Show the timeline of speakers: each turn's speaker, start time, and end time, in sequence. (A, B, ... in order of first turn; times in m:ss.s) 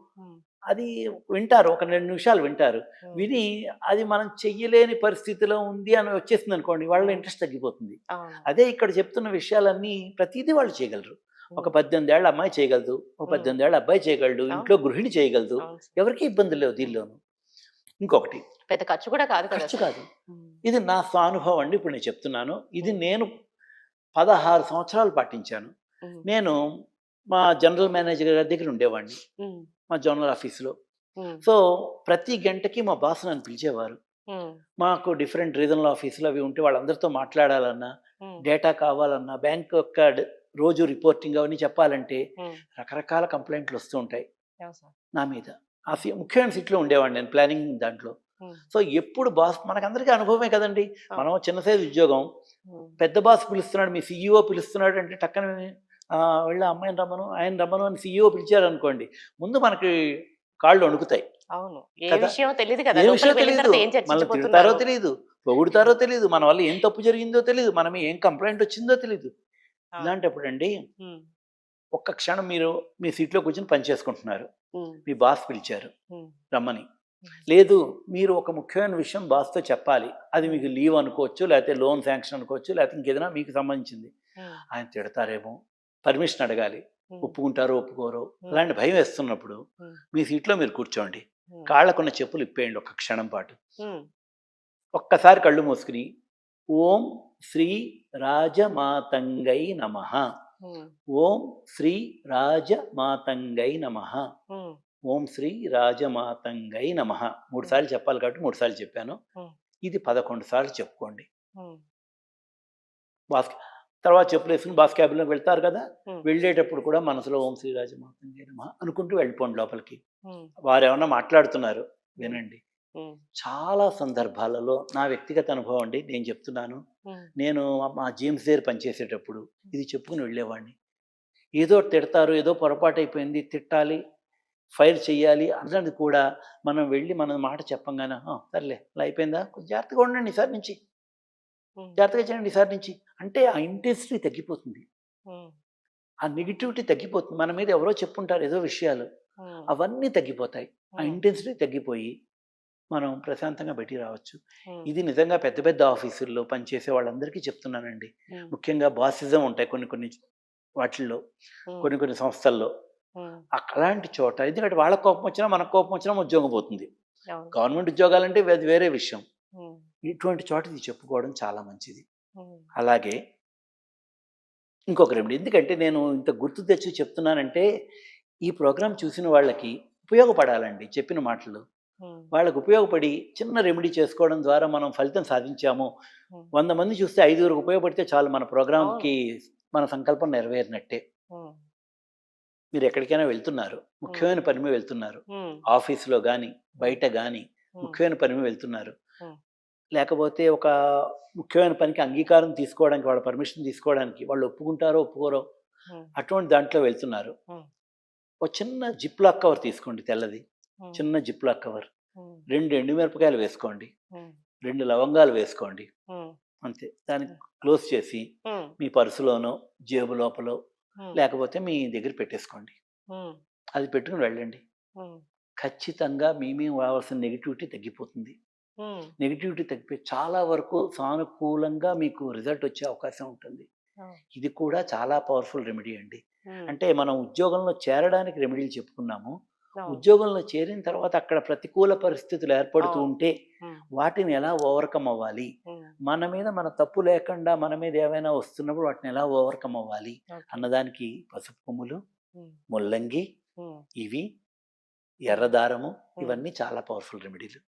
0:00.7-0:08.0 A
0:07.0-0:07.2 B
0:08.1-0:08.4 B
0:08.5-0:17.2 A
0:13.3-0:13.5 B
0:15.6-0:16.0 B
0:18.0-0:18.4 A
0:18.7-0:20.6 B
0:19.5-0:20.0 A
0:20.6-0:23.3 A
0:24.2-0:25.7 A
0:26.2-0:26.5 A
0:27.3-0:29.2 A
0:29.4-0:29.7 B
0:29.9-0:30.7 A
0:31.2-0:31.4 B
0:31.4-0:34.0 A
0:34.3-0:34.6 B
0:34.8-0:37.9 A
0:38.4-0:42.2 A
0:42.8-0:44.2 A
0:44.6-0:44.9 B
0:45.2-0:48.1 A
0:48.7-0:52.2 A
0:52.7-0:53.0 B
0:53.0-0:59.9 A
1:00.6-1:01.2 A
1:01.6-1:04.8 B
1:02.1-1:02.3 A
1:02.9-1:09.3 A
1:10.0-1:10.7 A
1:12.0-1:14.5 A
1:15.0-1:15.9 A
1:16.5-1:16.8 A
1:17.5-1:24.1 A
1:24.7-1:29.6 A
1:30.1-1:33.6 A
1:33.8-1:34.0 B
1:34.9-1:36.0 A
1:36.7-1:40.2 A
1:40.6-1:40.9 B
1:41.1-1:44.2 A
1:44.5-1:44.8 B
1:45.1-1:49.2 A
1:49.8-1:51.2 A
1:53.3-2:00.0 A
2:00.7-2:02.6 A
2:03.4-2:06.8 A
2:07.4-2:10.7 A
2:11.6-2:14.0 A
2:14.8-2:20.8 A
2:22.0-2:24.8 A
2:25.3-2:25.5 B
2:26.2-2:29.0 A
2:29.7-2:32.1 A
2:32.9-2:40.2 A
2:40.8-2:41.2 A
2:41.8-2:42.7 A
2:43.6-2:46.9 A
2:47.5-2:49.2 A
2:50.1-2:52.0 A
2:52.4-2:52.7 B
2:52.8-2:53.2 A
2:54.9-2:57.6 A
2:58.4-3:01.6 A
3:02.3-3:05.9 A
3:06.5-3:09.2 A
3:08.8-3:09.1 B
3:09.7-3:11.0 A
3:11.3-3:11.6 B
3:12.7-3:18.9 A
3:14.1-3:14.3 B
3:15.3-3:15.6 B
3:20.0-3:25.4 A
3:26.2-3:27.3 A
3:28.4-3:30.4 A
3:30.9-3:31.9 A
3:32.5-3:33.9 A
3:34.6-3:35.9 A
3:36.1-3:36.3 B
3:36.6-3:38.2 A
3:38.5-3:38.7 B
3:38.8-3:40.6 A
3:41.1-3:42.7 A
3:43.1-3:43.4 B
3:43.7-3:44.6 A
3:45.6-3:48.4 A
3:48.8-3:49.1 B
3:49.2-3:53.6 A
3:54.3-3:59.3 A
3:59.9-4:03.3 A
4:02.8-4:03.1 B
4:04.0-4:05.5 A
4:06.0-4:12.0 A
4:10.3-4:10.7 B
4:12.7-4:13.2 A
4:13.6-4:13.8 B
4:14.0-4:14.3 A
4:15.2-4:17.6 A